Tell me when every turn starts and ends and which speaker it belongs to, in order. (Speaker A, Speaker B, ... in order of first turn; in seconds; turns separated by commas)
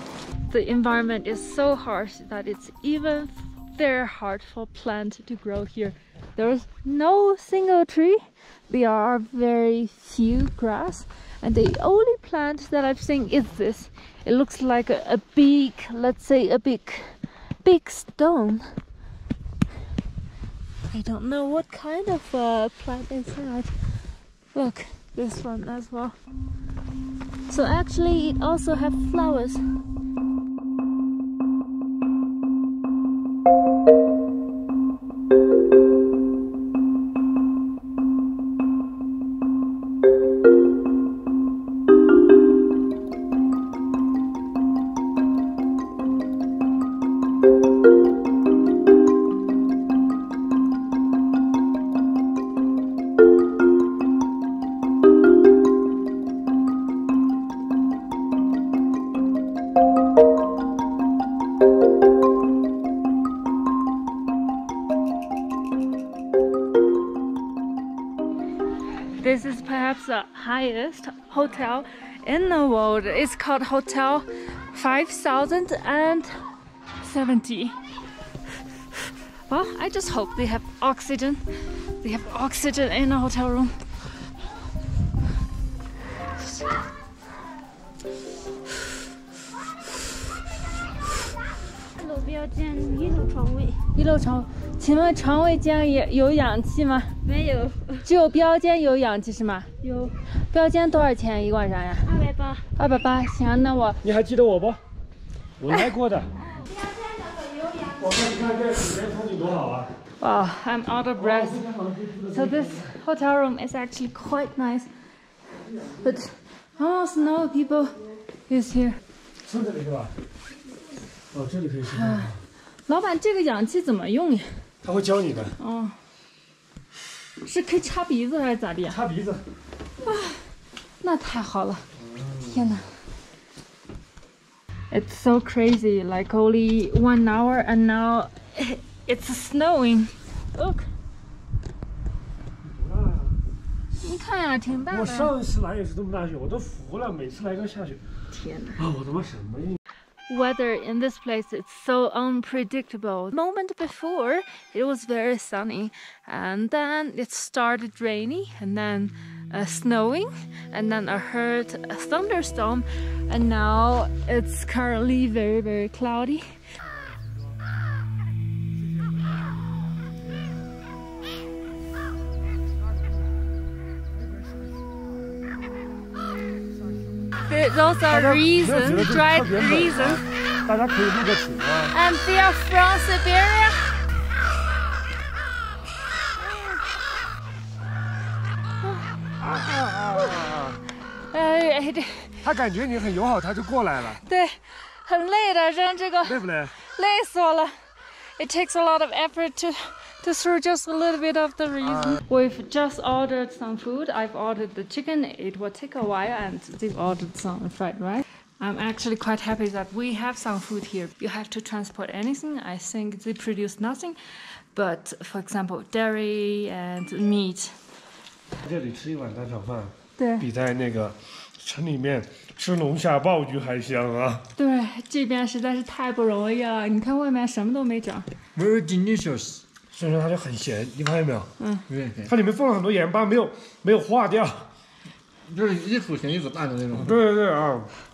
Speaker A: 0.5-18.7, Speaker A: 20.9-23.7, Speaker A: 24.5-26.1, Speaker A: 27.5-29.6, Speaker A: 69.2-76.4, Speaker A: 77.0-77.8, Speaker A: 79.5-83.8, Speaker B: 92.0-93.8, Speaker A: 94.0-97.1, Speaker B: 97.2-98.1, Speaker A: 98.0-99.7, Speaker B: 99.8-100.1, Speaker A: 100.5-102.1, Speaker B: 102.0-102.7, Speaker A: 102.8-104.0, Speaker C: 104.0-104.8, Speaker C: 105.6-106.3, Speaker B: 106.5-108.2, Speaker C: 108.0-109.9, Speaker A: 110.2-111.7, Speaker C: 111.3-112.7, Speaker A: 112.3-114.9, Speaker A: 116.0-119.0, Speaker C: 119.4-120.1, Speaker C: 121.3-122.4, Speaker A: 121.9-124.6, Speaker C: 124.8-125.6, Speaker A: 125.6-126.0, Speaker A: 127.4-129.0, Speaker C: 128.9-129.4, Speaker A: 130.1-130.4, Speaker A: 131.0-131.9, Speaker C: 132.0-132.6, Speaker A: 132.5-132.9, Speaker A: 134.9-140.8, Speaker C: 142.6-143.4, Speaker A: 144.0-145.3, Speaker C: 144.9-148.0, Speaker A: 148.3-148.8, Speaker C: 148.8-149.8, Speaker A: 150.3-166.5, Speaker A: 177.5-180.2, Speaker C: 178.1-181.9, Speaker A: 181.9-184.0, Speaker C: 189.4-190.8, Speaker A: 191.3-192.4, Speaker C: 192.4-194.2, Speaker A: 194.2-197.7, Speaker C: 196.2-196.8, Speaker A: 198.4-214.2, Speaker A: 214.7-217.8, Speaker C: 218.6-224.5, Speaker A: 220.2-220.5, Speaker A: 224.6-228.3, Speaker D: 228.6-229.5, Speaker C: 229.9-231.5, Speaker A: 231.6-231.8, Speaker C: 232.2-234.7, Speaker D: 235.5-237.1, Speaker C: 237.0-237.9